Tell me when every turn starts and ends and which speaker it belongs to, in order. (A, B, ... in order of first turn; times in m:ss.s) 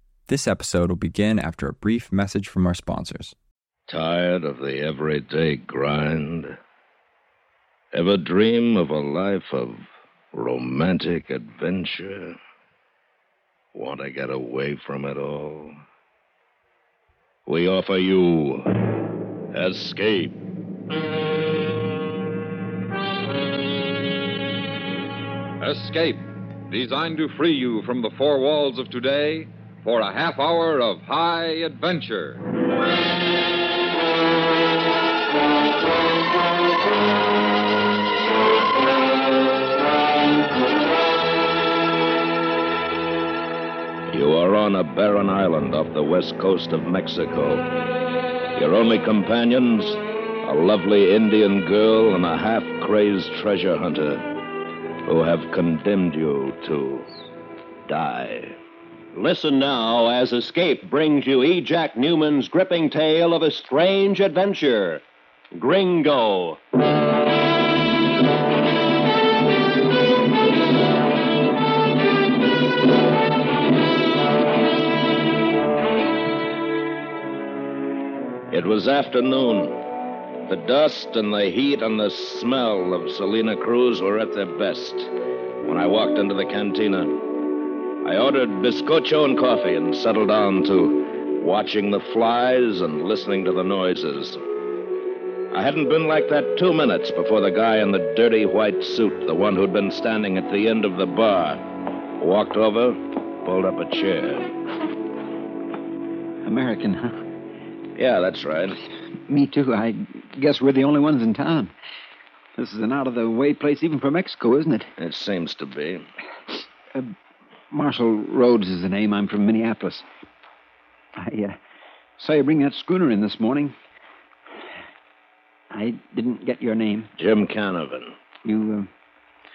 0:00.3-0:03.3 A
0:03.9-0:06.6 B
0:07.9-0:12.4 B
0:13.7-0:15.8 B
0:17.4-0:18.7 B
0:19.5-0:20.3 B
0:25.6-0:32.4 C
0:44.1-0:47.7 B
0:48.6-0:54.2 B
0:55.0-0:57.1 B
0:57.9-0:58.6 B
0:59.1-1:05.0 D
1:05.5-1:06.6 D
1:18.5-1:19.8 B
1:20.5-1:25.1 B
1:25.6-1:27.2 B
1:28.0-1:34.4 B
1:35.5-1:41.6 B
1:42.2-1:44.5 B
1:46.4-1:47.1 E
1:48.0-1:48.8 B
1:49.3-1:51.7 E
1:52.6-1:54.9 E
1:55.0-1:56.0 B
1:57.7-2:00.0 E
2:01.2-2:01.6 E
2:02.2-2:03.7 E
2:05.7-2:07.1 E
2:07.2-2:08.1 B
2:08.4-2:08.9 E